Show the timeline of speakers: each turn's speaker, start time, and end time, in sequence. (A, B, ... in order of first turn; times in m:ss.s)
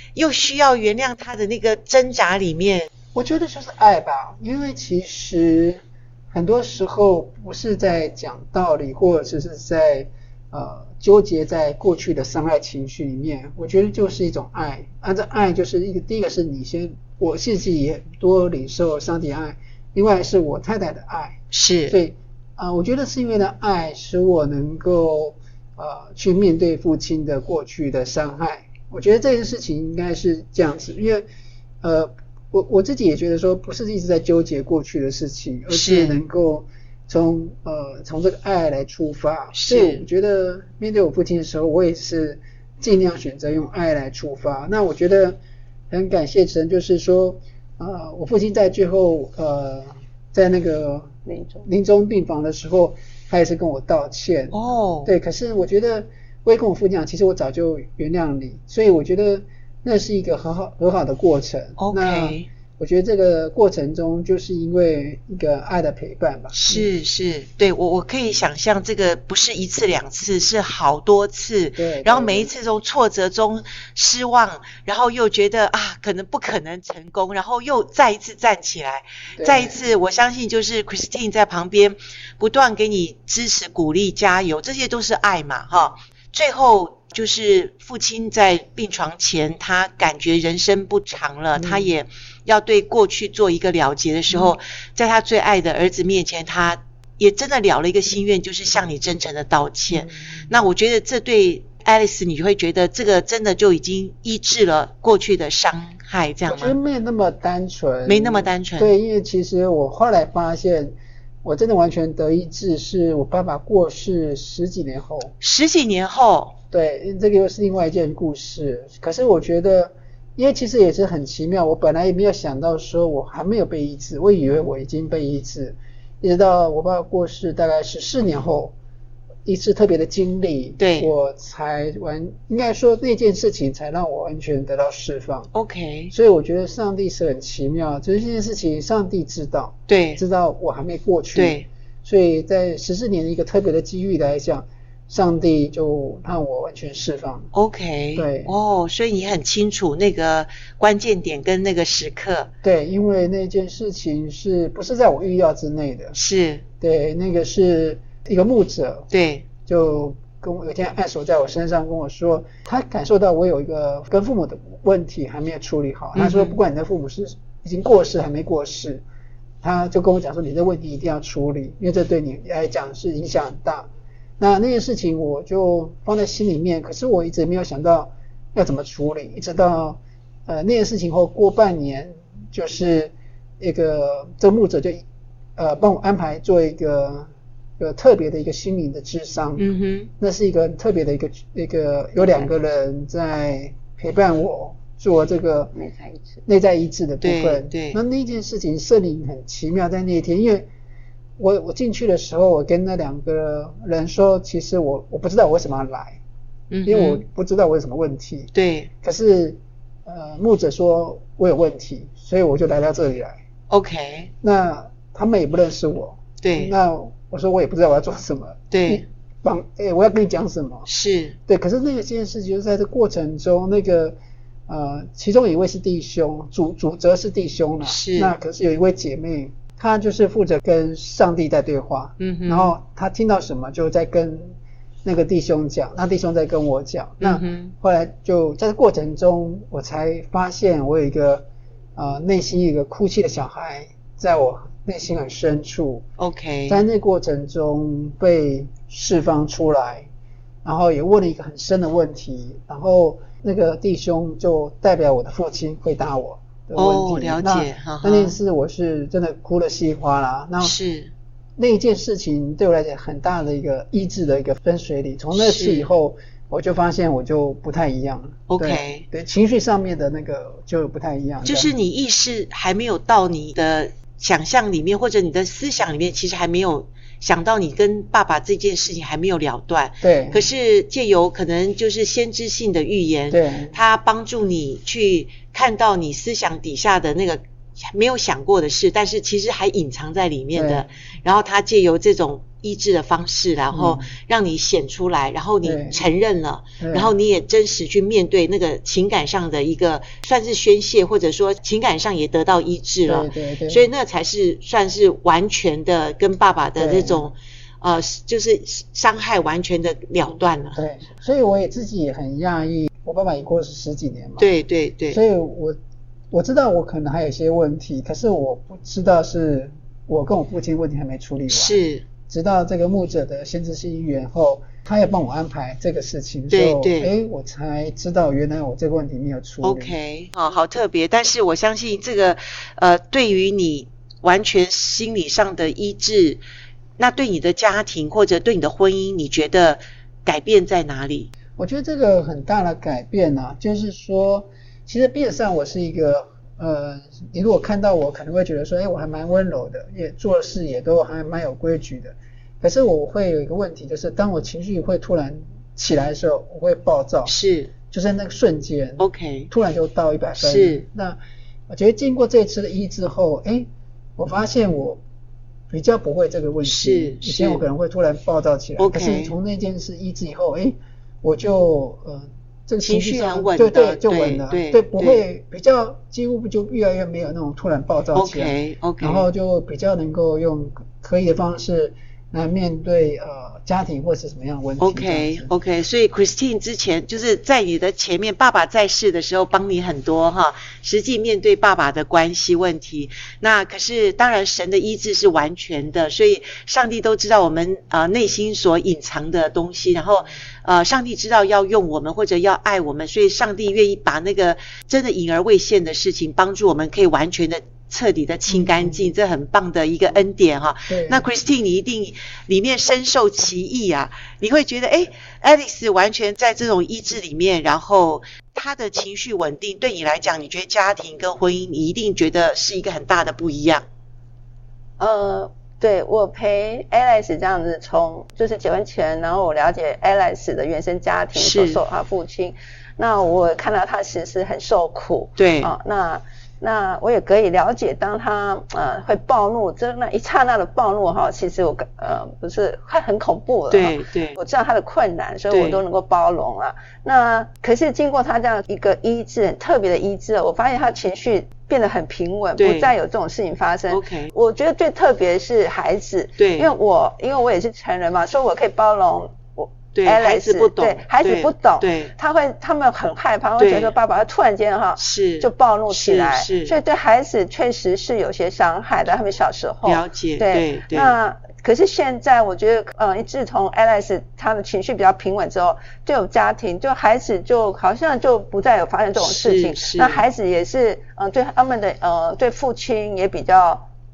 0:00.2-0:02.9 A
0:03.1-0:31.3 B
0:21.5-0:22.0 A
0:31.8-0:45.4 B
0:35.7-0:36.2 A
0:39.5-0:40.0 A
0:45.9-1:06.9 B
0:51.3-0:51.7 C
0:54.5-0:55.1 A
1:01.8-1:02.5 A
1:06.5-1:46.8 A
1:11.8-1:12.5 B
1:19.4-1:19.8 B
1:31.6-1:31.9 B
1:39.9-1:40.5 B
1:46.5-1:55.3 B
1:48.1-1:48.9 A
1:55.4-1:56.6 A
1:56.7-2:08.7 B
2:09.4-2:15.5 B
2:10.8-2:11.1 A
2:15.5-2:16.1 A
2:16.1-2:27.5 B
2:19.9-2:20.2 A
2:21.4-2:21.7 A
2:27.5-2:32.5 A
2:28.2-2:28.5 B
2:32.6-2:36.2 B
2:36.2-2:36.6 A
2:36.8-2:39.1 B
2:39.1-2:39.5 A
2:39.7-2:49.0 B
2:46.2-2:46.6 A
2:49.6-2:53.9 B
2:54.4-3:05.0 B
3:05.6-3:09.7 B
3:09.6-3:10.1 A
3:10.2-3:15.7 B
3:15.8-3:16.4 C
3:16.5-3:20.7 B
3:17.2-3:18.0 A
3:21.4-3:26.2 B
3:26.7-3:27.2 A
3:26.8-3:33.4 B
3:28.5-3:28.9 A
3:33.7-3:34.3 A
3:34.4-3:40.9 B
3:36.4-3:36.7 A
3:38.7-3:39.0 A
3:40.9-3:41.4 A
3:41.5-3:44.2 B
3:44.7-3:54.5 B
3:47.8-3:48.3 A
3:52.2-3:52.8 A
3:55.0-4:06.0 B
3:57.2-3:57.7 A
4:06.2-4:06.8 A
4:06.7-4:10.1 B
4:10.6-4:20.8 B
4:16.8-4:18.4 A
4:20.6-4:21.1 A
4:21.6-4:31.7 B
4:25.3-4:25.9 A
4:28.5-4:29.0 A
4:31.4-5:10.8 A
4:40.0-4:40.4 B
4:43.3-4:43.8 B
4:50.6-4:50.9 B
4:53.7-4:54.1 B
4:55.6-4:56.0 B
4:56.8-4:57.1 B
5:03.1-5:03.9 B
5:06.8-5:07.2 B
5:10.8-5:14.5 B
5:14.4-5:15.2 A
5:15.1-5:15.8 B
5:16.3-5:30.0 B
5:21.5-5:22.0 A
5:26.5-5:27.1 A
5:29.6-5:36.4 A
5:37.0-5:41.3 A
5:41.6-5:57.4 B
5:57.3-5:57.7 A
5:57.9-6:01.2 B
5:59.0-5:59.5 A
6:00.4-6:00.8 A
6:01.7-6:05.0 B
6:05.7-6:25.5 B
6:06.6-6:07.6 A
6:08.8-6:09.4 A
6:12.8-6:15.2 A
6:18.2-6:19.3 A
6:24.8-7:03.8 A
6:48.5-6:49.1 B
6:50.9-6:51.2 B
7:05.0-8:03.9 C
7:11.4-7:11.8 A
7:15.4-7:15.7 A
7:23.7-7:24.4 A
7:25.5-7:25.8 A
7:32.6-7:32.9 A
7:33.9-7:34.3 A
7:36.4-7:36.7 A
7:40.0-7:42.1 A
7:43.6-7:43.9 A
7:45.0-7:46.8 A
7:49.8-7:51.1 A
7:59.2-8:00.2 A